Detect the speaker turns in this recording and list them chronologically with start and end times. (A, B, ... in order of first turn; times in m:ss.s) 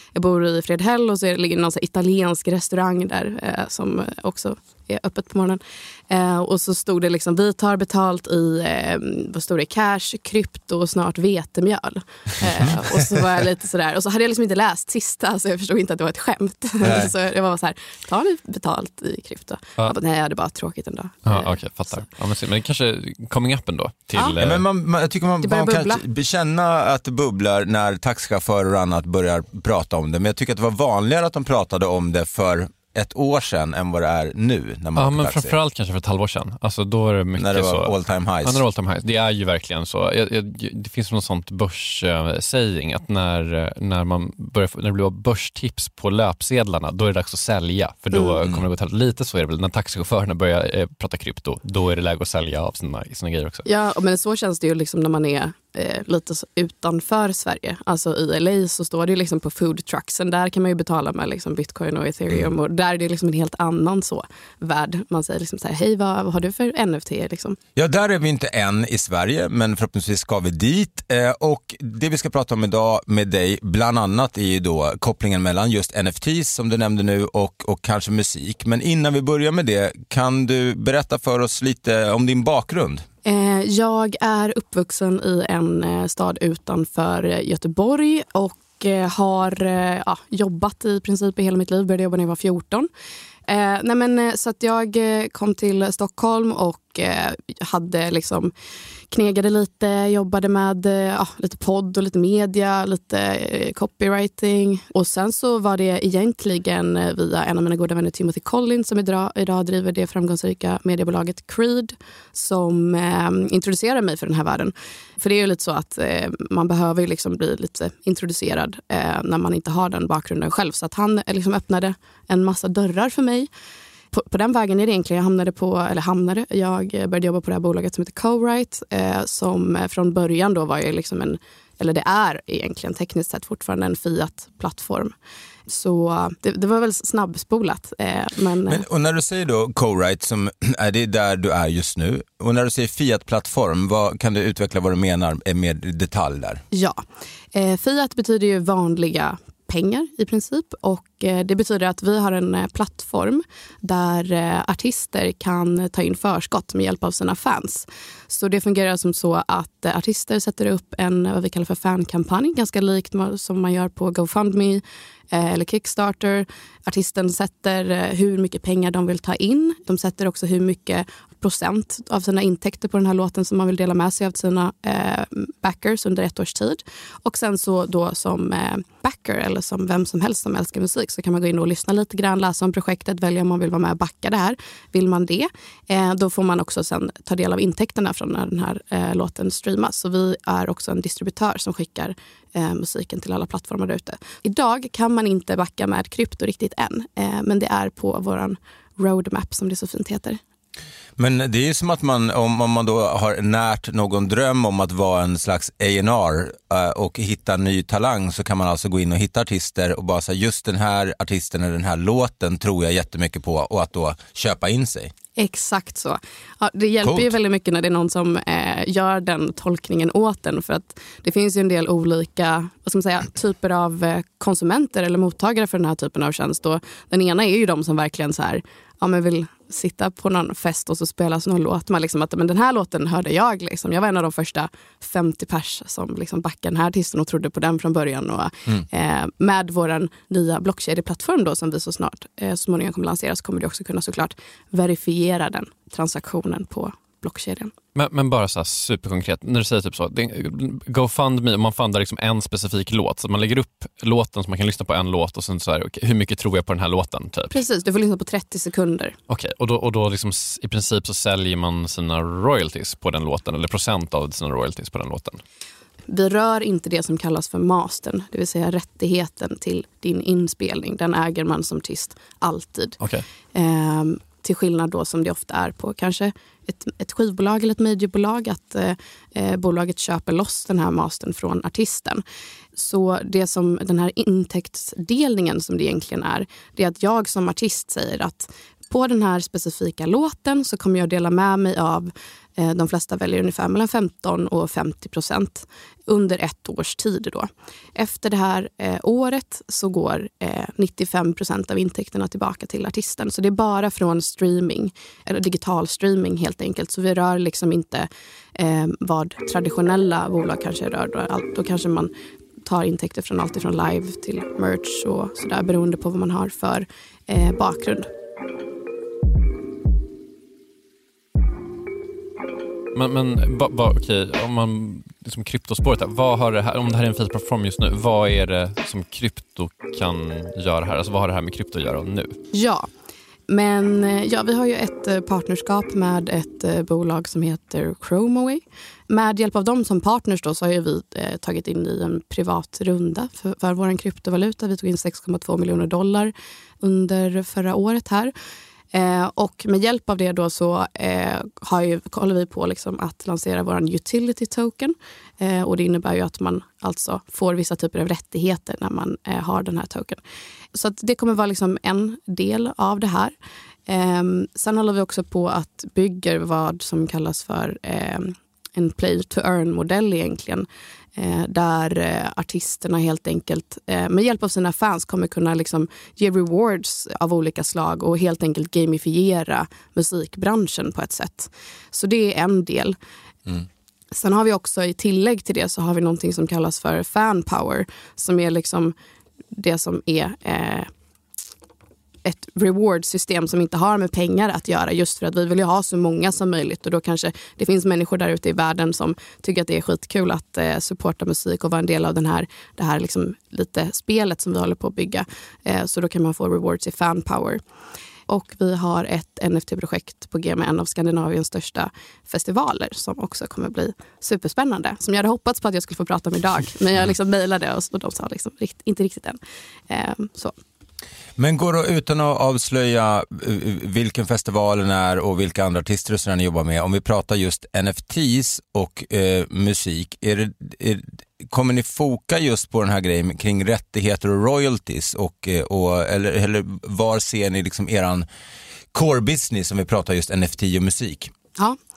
0:00.2-0:22.0 A
0:16.8-0:17.1 B
0:21.3-0:24.6 C
0:24.4-0:35.6 B
0:25.4-0:26.0 A
0:35.0-0:53.7 C
0:37.4-0:38.6 B
0:53.7-1:07.6 A
1:07.8-1:23.0 B
1:23.2-1:32.9 A
1:33.5-1:38.5 A
1:39.1-2:03.5 A
2:04.1-2:15.1 A
2:15.7-2:18.8 A
2:18.7-2:26.6 B
2:26.7-2:27.0 A
2:27.5-3:20.4 A
3:21.2-3:35.1 B
3:35.4-4:07.7 A
3:37.0-3:37.3 B
4:08.0-4:17.6 C
4:17.5-4:19.2 A
4:19.3-4:25.4 C
4:26.1-4:33.0 A
4:33.5-4:42.2 A
4:42.8-5:12.1 A
5:12.7-5:18.1 A
5:22.9-5:32.4 C
5:32.5-5:32.9 A
5:33.5-5:48.3 A
5:48.9-6:00.2 A
6:00.7-6:03.4 A
6:03.9-6:23.0 A
6:24.1-6:28.9 A
6:29.5-6:30.9 A
6:32.2-6:47.6 A
6:48.3-6:59.4 A
6:59.9-7:00.6 A
7:01.4-7:18.3 B
7:18.9-7:21.3 B